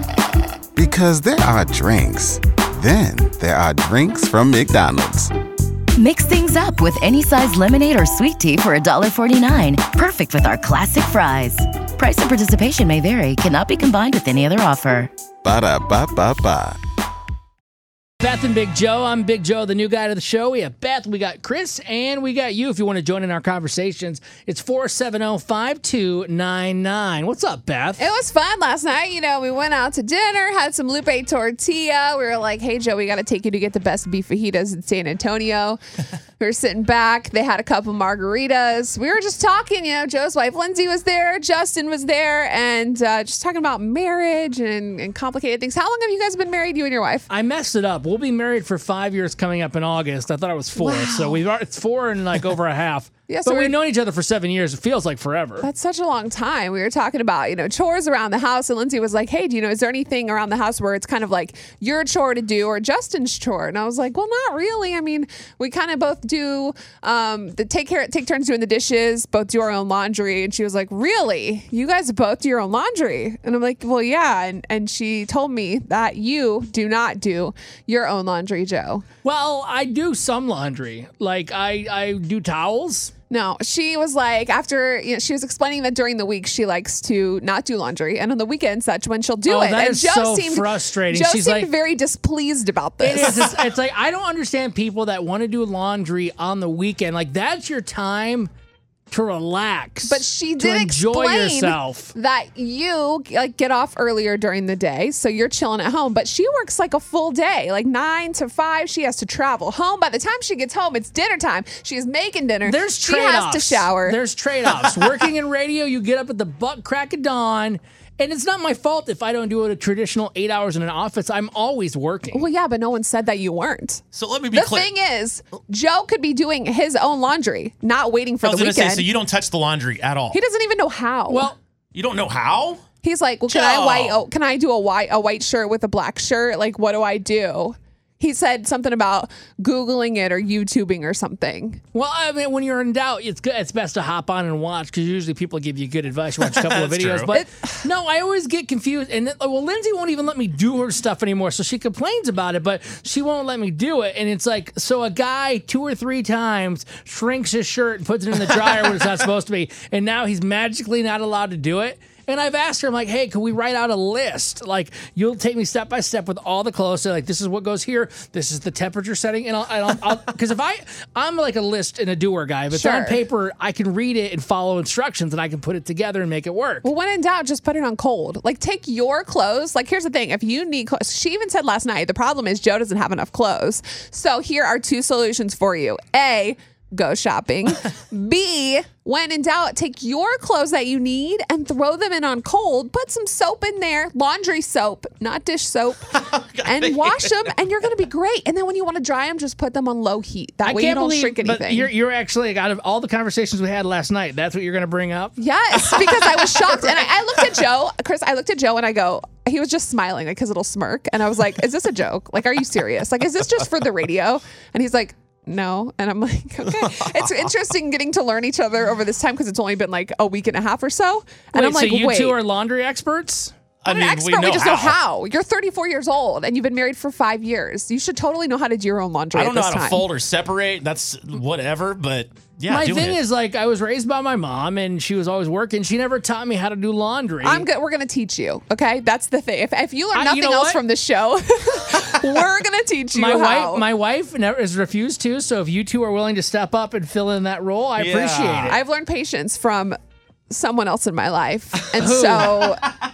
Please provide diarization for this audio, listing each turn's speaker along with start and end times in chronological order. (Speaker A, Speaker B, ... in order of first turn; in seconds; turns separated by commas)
Speaker A: 0.8-5.3, Speaker B: 6.0-15.1, Speaker A: 15.4-16.8, Speaker C: 18.2-28.1, Speaker D: 28.0-35.8, Speaker D: 36.4-47.3, Speaker C: 47.3-55.7, Speaker D: 50.8-51.4, Speaker D: 53.3-53.8, Speaker D: 55.6-79.0, Speaker C: 79.2-83.1, Speaker D: 83.3-93.4, Speaker C: 89.5-91.7, Speaker C: 93.0-98.5, Speaker C: 99.1-102.1, Speaker D: 100.1-114.2, Speaker C: 112.6-122.5, Speaker D: 122.3-124.0, Speaker E: 124.1-124.9, Speaker D: 124.5-129.1, Speaker E: 128.4-130.4, Speaker D: 130.3-131.5, Speaker C: 131.3-131.6, Speaker E: 131.9-132.8, Speaker D: 133.0-141.8, Speaker E: 133.5-134.2, Speaker C: 141.9-176.9, Speaker E: 146.4-147.4, Speaker D: 147.3-147.7, Speaker D: 172.7-173.2, Speaker D: 176.8-196.1, Speaker E: 196.3-197.2, Speaker D: 196.6-201.9, Speaker C: 200.6-205.4, Speaker D: 205.4-222.4, Speaker C: 221.5-223.6, Speaker E: 223.8-225.0, Speaker D: 223.9-230.1, Speaker E: 229.3-233.2, Speaker C: 232.7-237.7, Speaker D: 237.4-243.9, Speaker C: 240.1-240.8, Speaker C: 243.1-248.8, Speaker E: 248.0-248.7, Speaker D: 248.7-250.0, Speaker D: 250.5-252.9, Speaker C: 252.0-252.5